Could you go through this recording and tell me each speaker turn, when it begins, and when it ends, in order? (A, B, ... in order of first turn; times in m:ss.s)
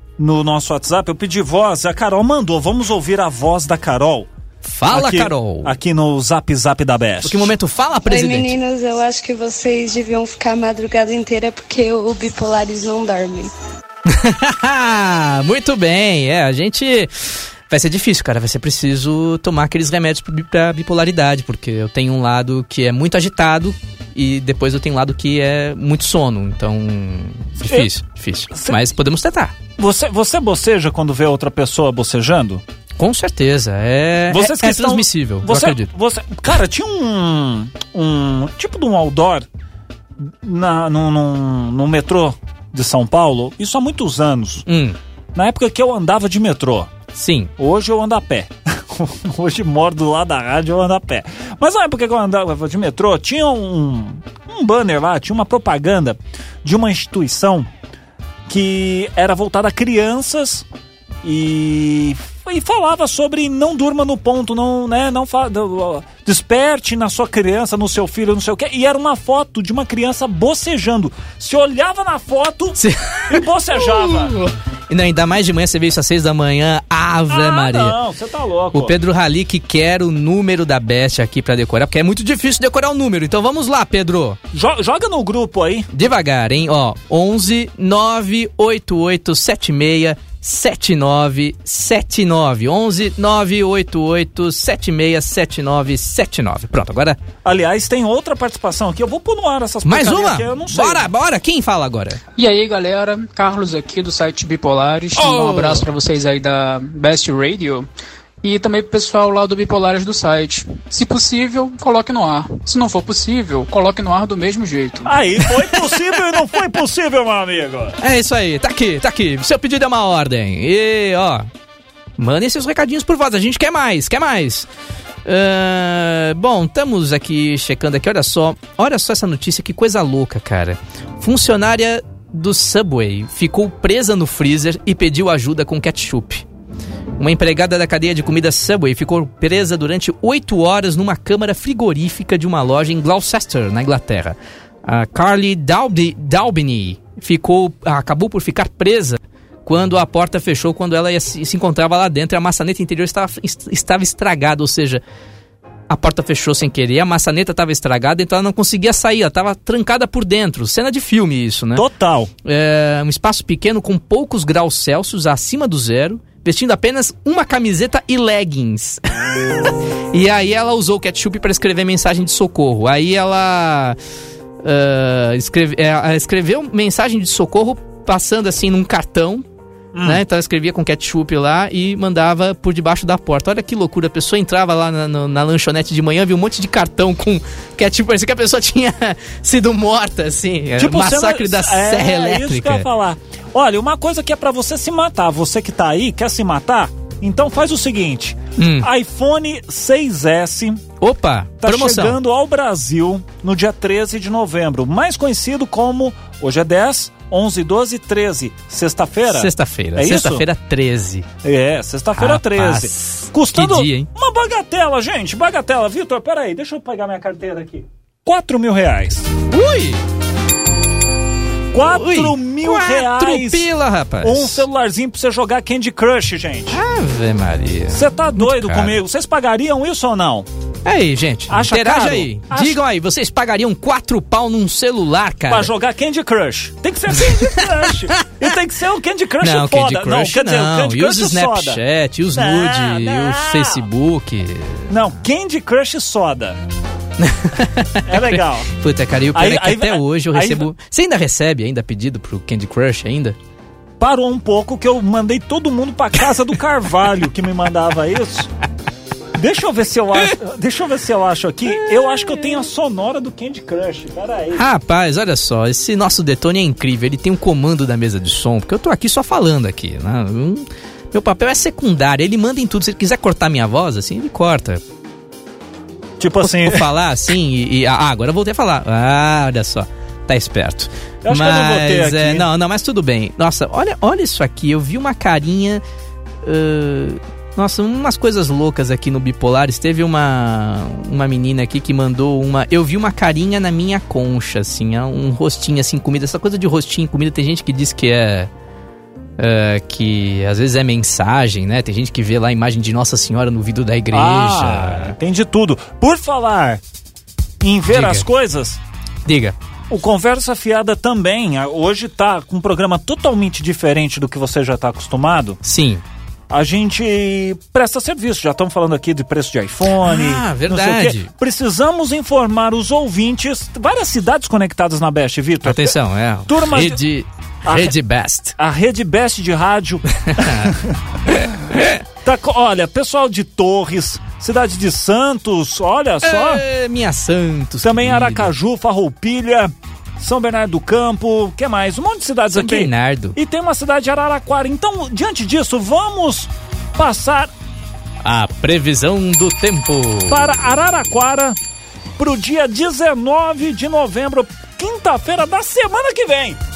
0:00.2-0:04.3 A
0:04.6-0:05.8 B
0:04.9-0:07.5 A
0:07.2-0:08.6 B
0:08.1-0:13.5 C
0:14.1-0:29.6 B
0:27.6-0:27.9 A
0:28.5-0:28.8 A
0:29.8-0:32.6 A
0:33.0-0:35.9 B
0:34.3-0:39.5 A
0:40.2-0:44.6 A
0:44.7-0:45.0 B
0:45.4-0:46.9 A
0:47.1-0:47.5 B
0:47.6-0:57.7 A
0:58.5-1:00.7 A
1:01.2-1:14.4 A
1:12.8-1:18.0 B
1:17.3-1:19.0 A
1:18.7-1:24.4 B
1:24.5-1:25.9 A
1:25.9-1:37.2 B
1:37.4-1:41.1 A
1:39.8-1:42.2 B
1:42.4-1:47.9 D
1:45.2-1:45.9 B
1:48.4-1:55.1 D
1:55.0-1:58.0 A
1:58.0-2:01.5 B
2:02.2-2:04.7 B
2:05.2-2:16.5 B
2:17.2-2:35.0 B
2:35.9-2:41.9 B
2:41.7-2:42.3 A
2:42.4-2:54.0 B
2:54.6-2:59.4 B
2:59.9-3:00.2 A
3:00.0-3:12.9 B
3:10.8-3:20.8 A
3:18.6-3:18.9 B
3:21.0-3:22.2 B
3:21.6-3:30.5 A
3:29.3-3:31.3 B
3:31.4-3:39.3 A
3:32.2-3:34.1 B
3:39.5-3:40.0 B
3:41.7-3:43.7 A
3:41.8-3:44.7 B
3:44.2-3:46.8 A
3:46.7-3:49.0 B
3:47.9-3:50.5 A
3:50.9-3:55.7 B
3:51.5-3:52.8 A
3:55.5-4:01.8 A
3:57.2-3:58.2 B
3:59.4-4:04.9 B
4:02.3-4:03.9 A
4:04.9-4:06.6 A
4:07.2-4:13.4 B
4:08.1-4:08.7 A
4:09.3-4:10.7 A
4:14.0-4:18.5 A
4:19.4-4:24.6 A
4:24.5-4:34.8 B
4:36.2-4:36.9 A
4:36.4-4:45.8 B
4:41.2-4:42.5 A
4:46.4-4:58.5 B
4:59.4-5:05.2 B
5:04.1-5:06.8 A
5:07.6-5:08.8 A
5:07.9-5:08.3 B
5:09.3-5:09.6 B
5:09.9-5:15.6 A
5:15.6-5:16.0 B
5:16.5-5:27.0 A
5:20.0-5:21.3 B
5:25.6-5:28.6 B
5:27.6-5:28.0 A
5:28.6-5:31.0 A
5:30.2-5:30.7 B
5:31.3-5:32.0 B
5:32.2-5:36.6 A
5:36.2-5:38.5 B
5:37.8-5:47.5 A
5:42.5-5:43.4 B
5:48.2-5:50.4 B
5:50.3-5:51.6 A
5:52.2-5:56.6 A